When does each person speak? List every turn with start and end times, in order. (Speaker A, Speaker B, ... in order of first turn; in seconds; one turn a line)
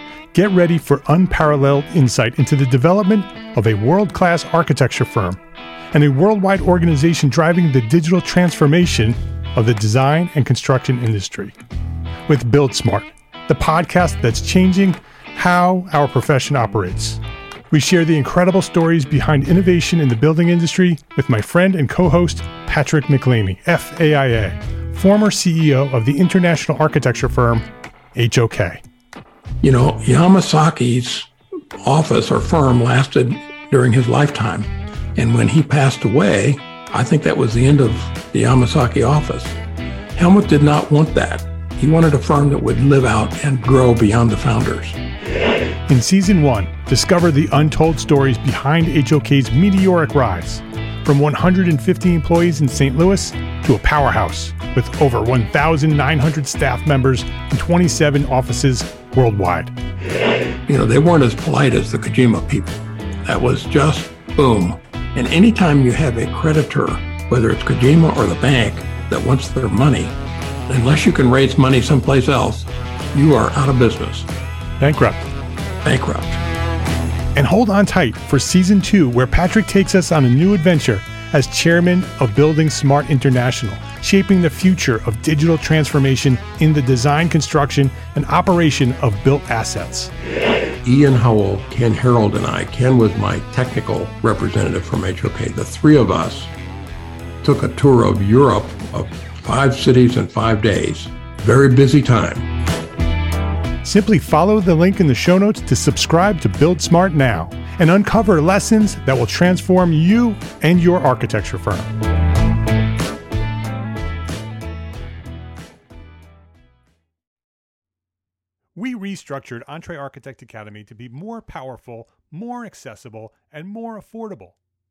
Speaker A: 0.3-5.4
Speaker A: 5.9-11.6
Speaker A: 12.3-17.2
Speaker A: 17.7-28.8
Speaker B: 29.6-31.3
Speaker B: 31.8-39.6
Speaker B: 40.1-45.0
Speaker A: 45.9-59.7
Speaker B: 60.7-70.1
Speaker B: 70.7-74.3
Speaker A: 74.8-75.3
Speaker B: 75.8-76.4
Speaker A: 77.3-90.1
Speaker B: 90.8-96.5
Speaker B: 97.4-102.5
Speaker A: 103.8-111.9
Speaker A: 118.8-124.6